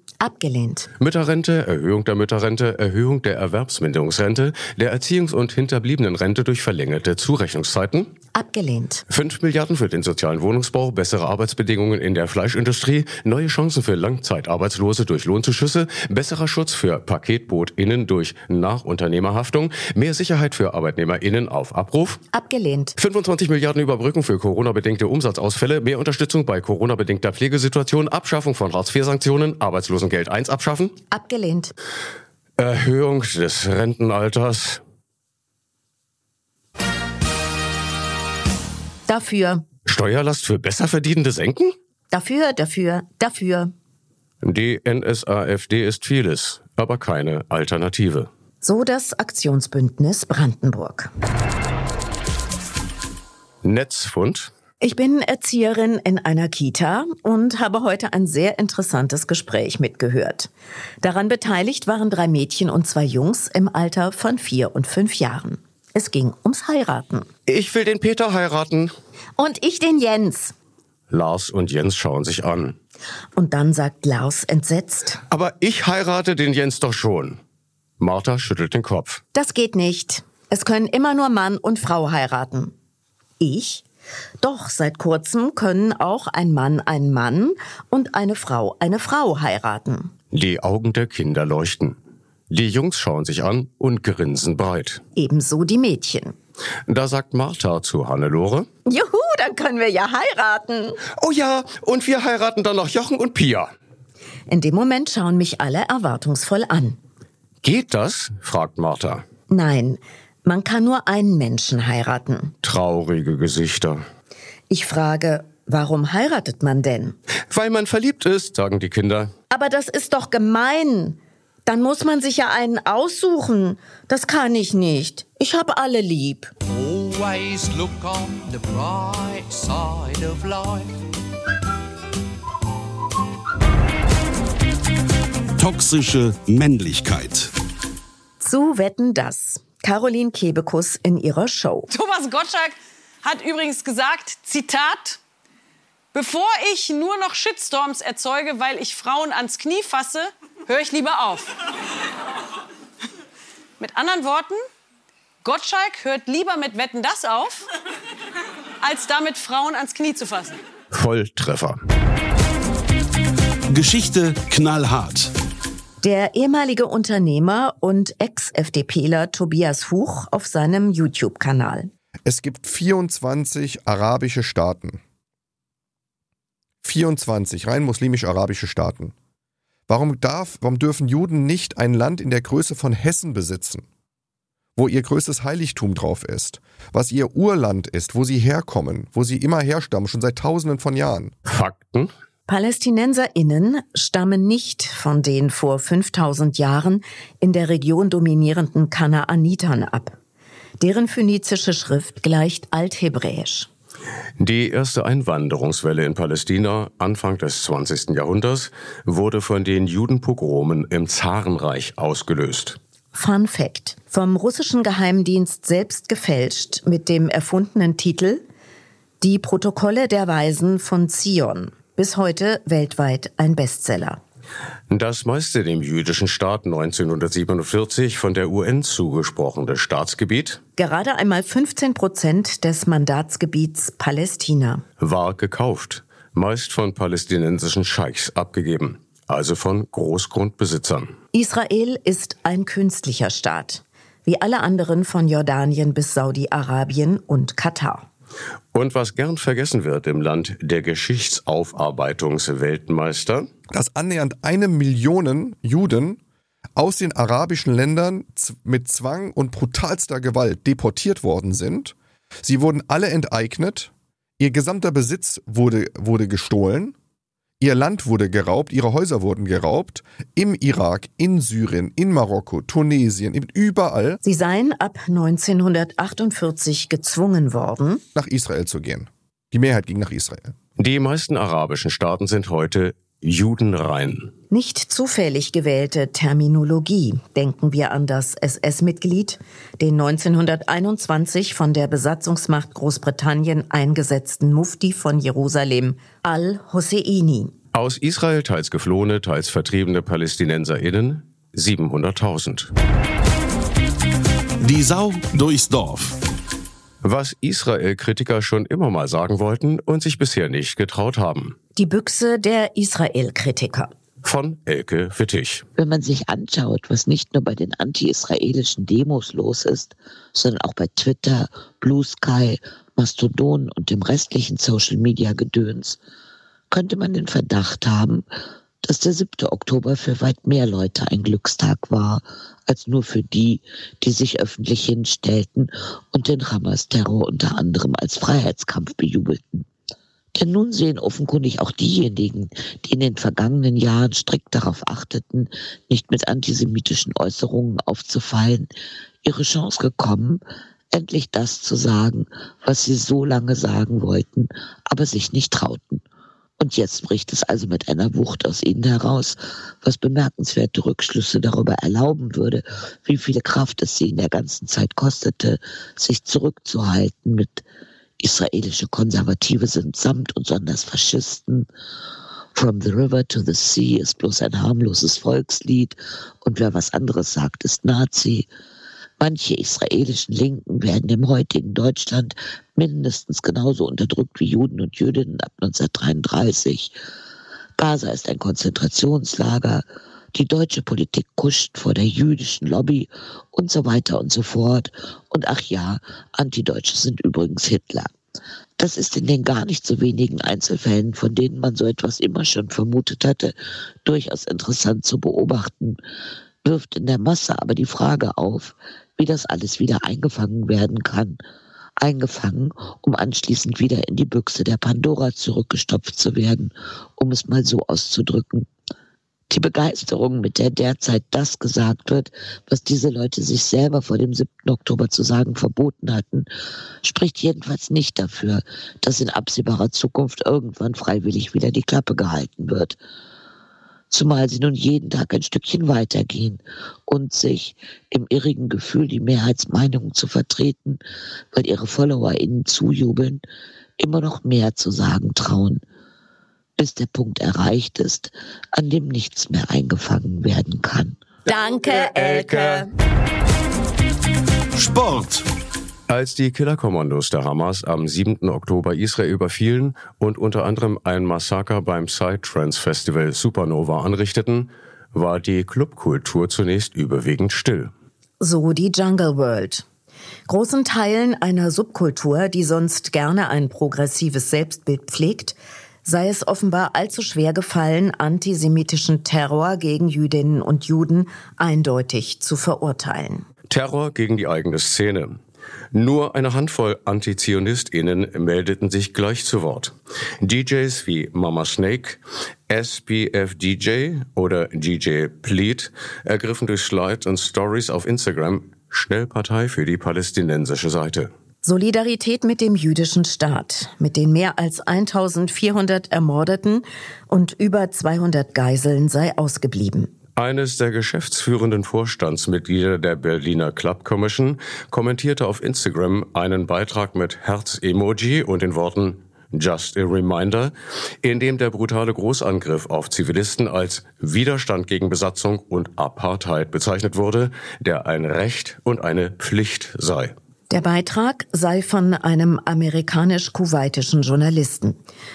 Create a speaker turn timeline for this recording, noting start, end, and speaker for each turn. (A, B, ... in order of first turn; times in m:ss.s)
0:00.2-0:00.9 A
0:01.0-0:08.1 B
0:08.4-0:09.0 A
0:09.1-0:22.2 B
0:22.3-0:23.0 A
0:23.0-0:31.0 B
0:31.1-0:31.7 A
0:32.6-0:34.8 B
0:39.1-0:39.6 A
0:39.9-0:41.8 B
0:42.1-0:43.7 A
0:44.4-0:48.3 B
0:48.6-0:51.1 A
0:53.6-0:54.5 B
0:54.8-1:00.5 A
1:01.0-1:07.3 A
1:07.5-1:08.9 B
1:09.4-1:10.5 A
1:11.1-1:12.8 B
1:13.4-1:15.2 A
1:15.3-1:17.4 B
1:18.0-1:19.2 B
1:19.4-1:22.7 A
1:23.4-1:23.8 A
1:24.4-1:30.1 A
1:30.3-1:32.0 B
1:32.5-1:35.0 B
1:35.2-1:36.4 A
1:36.9-1:38.7 B
1:38.9-1:41.0 A
1:41.2-1:43.7 B
1:44.5-1:47.0 A
1:47.6-1:49.2 B
1:49.5-1:52.5 A
1:52.6-1:54.0 B
1:54.7-1:57.2 A
1:57.5-1:59.3 B
1:59.5-2:06.5 A
2:06.9-2:10.8 C
2:15.6-2:17.5 D
2:18.4-2:21.9 A
2:21.9-2:25.2 E
2:26.1-2:31.5 E
2:33.8-2:34.6 E
2:35.4-2:37.7 E
2:38.8-2:40.6 E
2:40.9-2:41.8 B
2:43.7-2:45.3 D
2:46.0-2:51.9 A
2:52.2-2:55.0 F
2:56.8-2:59.1 F
2:59.9-3:03.9 F
3:04.8-3:11.3 F
3:11.5-3:12.1 B
3:12.5-3:20.2 A
3:20.8-3:23.7 A
3:24.4-3:32.8 B
3:33.1-3:38.4 A
3:39.2-3:44.2 A
3:44.9-3:50.6 B
3:50.8-3:54.8 A
3:55.0-4:01.1 B
4:01.3-4:08.1 A
4:08.7-4:13.5 B
4:13.7-4:16.2 F
4:16.8-4:27.0 F
4:27.6-4:34.2 F
4:34.2-4:38.0 A
4:38.2-4:40.6 F
4:40.8-4:44.3 B
4:44.5-4:57.5 A
4:57.7-5:02.7 B
5:04.6-5:06.2 D
5:07.0-5:11.6 B
5:11.8-5:13.9 A
5:14.2-5:15.6 B
5:15.8-5:26.0 G
5:26.7-5:28.2 G
5:28.8-5:39.7 G
5:40.4-5:48.7 G
5:49.2-5:56.0 G
5:56.6-6:07.6 G
6:08.2-6:11.7 G
6:12.6-6:18.5 G
6:19.2-6:26.9 G
6:27.8-6:38.1 G
6:38.8-6:46.0 G
6:46.6-6:51.4 G
6:52.0-6:58.7 G
6:59.5-7:06.5 G
7:07.0-7:13.0 G
7:14.1-7:21.0 G
7:21.5-7:23.4 G
7:24.0-7:25.8 G
7:26.8-7:31.2 G
7:31.5-7:32.9 A
7:31.9-7:32.9 B
7:34.8-7:35.5 D
7:36.1-7:47.9 B
7:48.4-7:49.8 A
7:50.5-8:03.5 A
8:03.7-8:05.4 B
8:05.9-8:21.3 B
8:21.6-8:30.1 A
8:30.4-8:50.3 B
8:50.7-8:55.0 A